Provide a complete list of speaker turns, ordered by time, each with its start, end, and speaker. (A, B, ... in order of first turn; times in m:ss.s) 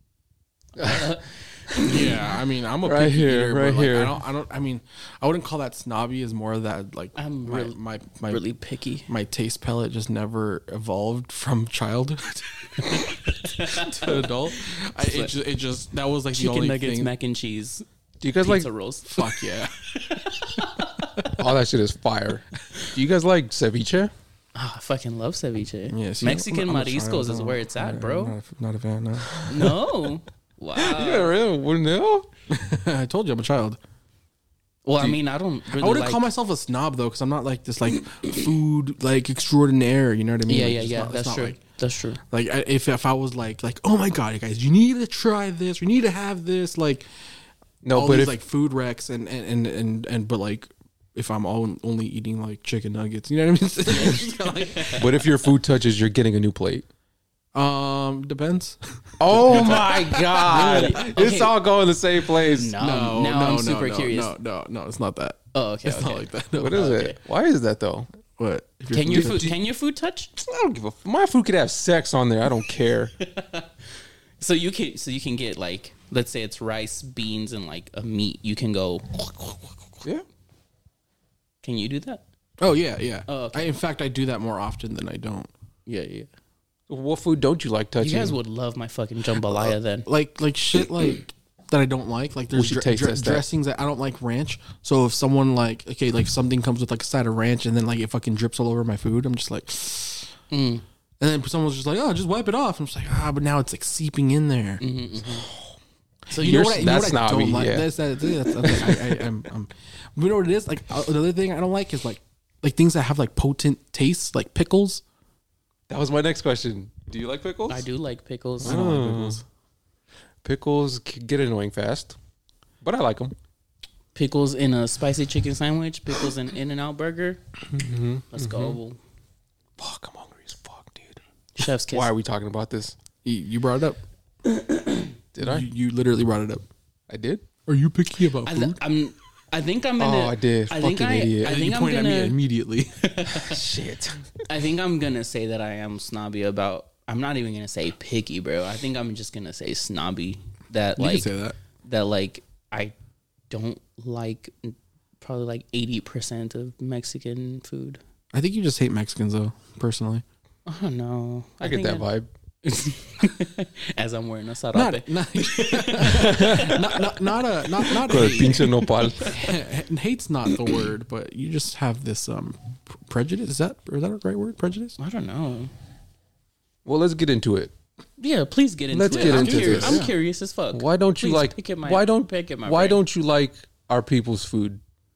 0:00.8-0:02.2 A
0:00.8-0:01.2 B
0:01.8-0:08.4 C
0:02.8-0:04.2 B
0:07.2-0:09.1 A
0:09.1-0:17.1 C
0:12.8-0:15.3 A
0:16.3-0:21.2 A
0:18.2-0:18.7 B
0:19.0-0:19.9 C
0:20.5-0:21.3 C
0:21.4-0:24.1 B
0:24.5-0:28.3 A
0:25.9-0:29.7 C
0:29.4-0:31.3 A
0:30.8-0:32.3 B
0:32.5-0:33.8 C
0:34.8-0:36.2 A
0:35.7-0:41.6 C
0:40.5-0:42.2 A
0:42.3-0:47.0 C
0:47.8-0:48.4 B
0:47.9-0:55.0 C
0:53.9-0:55.2 A
0:55.0-0:56.8 B
0:57.5-1:01.0 C
0:59.2-1:02.8 B
0:59.5-1:01.5 A
1:02.4-1:04.3 A
1:02.8-1:06.8 C
1:05.5-1:07.2 A
1:06.6-1:08.1 B
1:08.4-1:09.5 C
1:08.9-1:10.3 A
1:09.1-1:09.5 B
1:10.4-1:13.1 B
1:13.2-1:13.7 A
1:14.4-1:19.7 A
1:21.6-1:22.2 A
1:22.6-1:25.5 C
1:23.3-1:23.7 A
1:25.8-1:26.3 A
1:26.9-1:28.4 B
1:28.0-1:30.1 A
1:30.0-1:40.3 C
1:32.5-1:33.4 B
1:40.5-1:40.8 A
1:41.2-1:44.8 C
1:44.8-1:45.5 A
1:46.3-1:55.0 C
1:46.3-1:46.9 A
1:46.4-1:47.9 B
1:48.6-1:49.0 B
1:55.9-1:57.9 B
1:57.7-1:59.0 A
1:58.6-1:59.4 B
1:58.6-1:59.4 C
2:00.4-2:02.2 B
2:02.8-2:03.3 B
2:04.1-2:07.4 A
2:07.7-2:08.8 B
2:08.3-2:09.0 A
2:09.8-2:11.2 B
2:11.6-2:12.1 A
2:11.9-2:13.0 B
2:13.2-2:14.0 C
2:14.4-2:15.1 A
2:15.3-2:15.7 B
2:15.4-2:16.6 C
2:17.1-2:17.4 B
2:17.7-2:18.8 C
2:18.4-2:22.4 A
2:20.0-2:21.6 B
2:21.4-2:23.0 C
2:23.0-2:23.6 A
2:23.3-2:24.4 B
2:24.5-2:31.3 A
2:31.0-2:31.6 C
2:31.8-2:32.9 A
2:33.5-2:38.0 A
2:38.3-2:40.2 C
2:40.6-2:42.1 A
2:41.6-2:42.3 B
2:42.6-2:49.5 A
2:44.7-2:55.0 C
2:46.0-2:46.8 B
2:48.1-2:49.4 B
2:55.0-2:55.7 A
2:56.8-2:57.7 B
2:58.2-3:03.0 A
2:58.9-3:00.1 B
2:59.1-3:00.1 C
3:00.7-3:04.8 B